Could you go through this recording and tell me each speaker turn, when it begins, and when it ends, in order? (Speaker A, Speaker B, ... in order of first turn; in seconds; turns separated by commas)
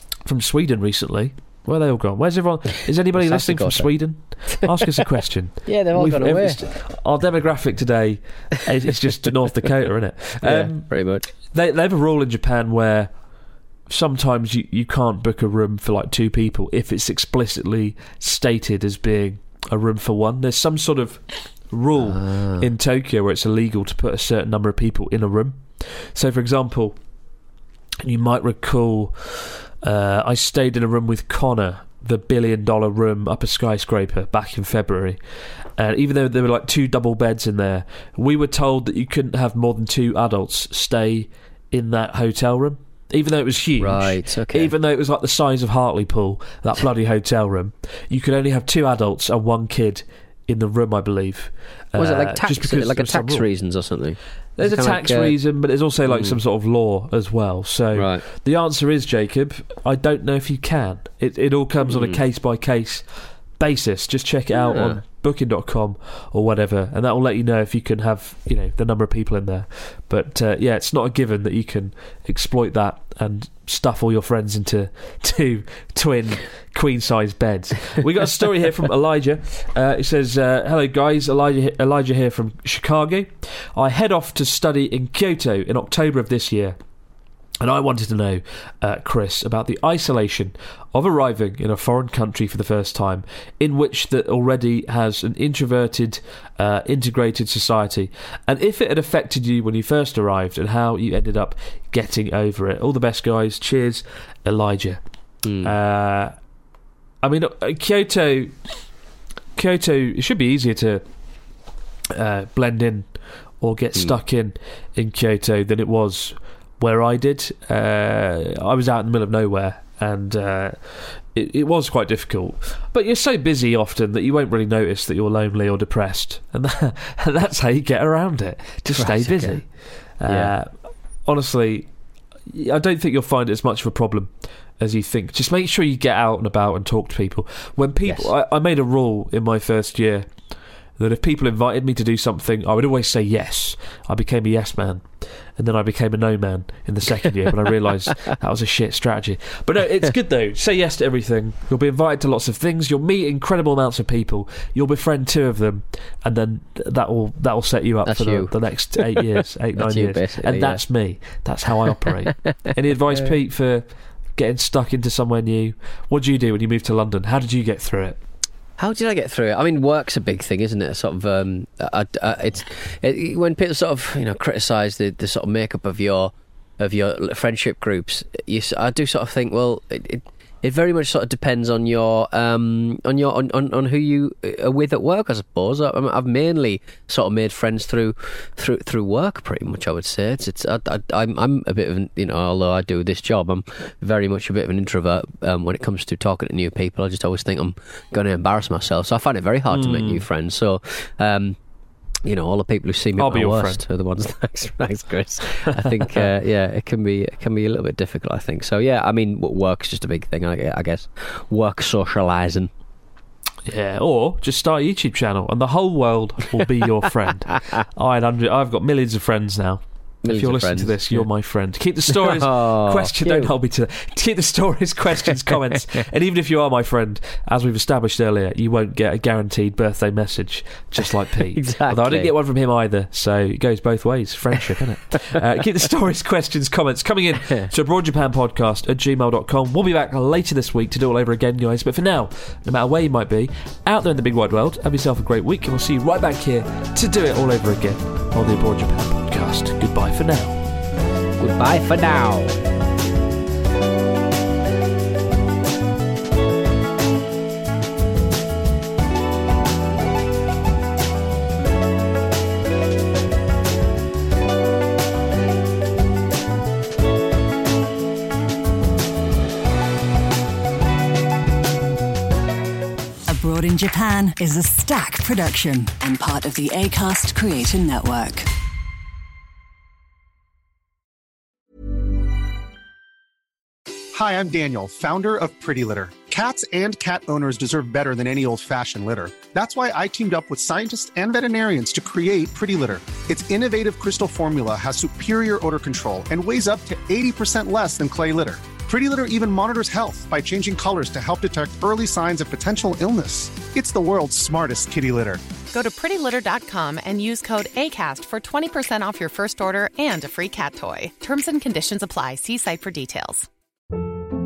Speaker A: 0.2-10.9, Speaker B: 3.1-3.9, Speaker B: 5.6-6.6, Speaker B: 10.4-11.3, Speaker A: 11.5-13.1, Speaker A: 13.9-26.9, Speaker B: 22.0-22.6, Speaker A: 28.0-35.2, Speaker A: 35.8-53.4, Speaker B: 43.8-44.7, Speaker B: 52.0-55.3, Speaker A: 54.6-86.8, Speaker B: 56.0-56.4, Speaker B: 57.9-58.2, Speaker B: 61.9-62.2, Speaker B: 64.5-65.0, Speaker A: 87.6-105.0, Speaker B: 105.4-105.7, Speaker A: 105.6-106.3, Speaker A: 107.2-108.5, Speaker A: 109.5-111.0, Speaker A: 112.1-113.1, Speaker A: 113.6-130.7, Speaker B: 128.9-129.6, Speaker B: 130.3-130.5, Speaker A: 131.2-131.9, Speaker A: 132.5-140.3, Speaker B: 138.0-138.3, Speaker A: 141.0-168.2, Speaker B: 158.1-159.2, Speaker B: 159.8-160.8, Speaker B: 168.8-201.6, Speaker A: 199.7-200.2, Speaker B: 202.2-212.7, Speaker A: 203.2-203.8, Speaker A: 205.9-206.2, Speaker A: 213.7-250.6, Speaker B: 220.2-221.2, Speaker B: 222.1-223.5, Speaker B: 225.5-226.0, Speaker B: 231.5-232.3, Speaker B: 251.4-252.6, Speaker C: 273.3-278.5, Speaker D: 284.1-305.4, Speaker E: 305.7-313.5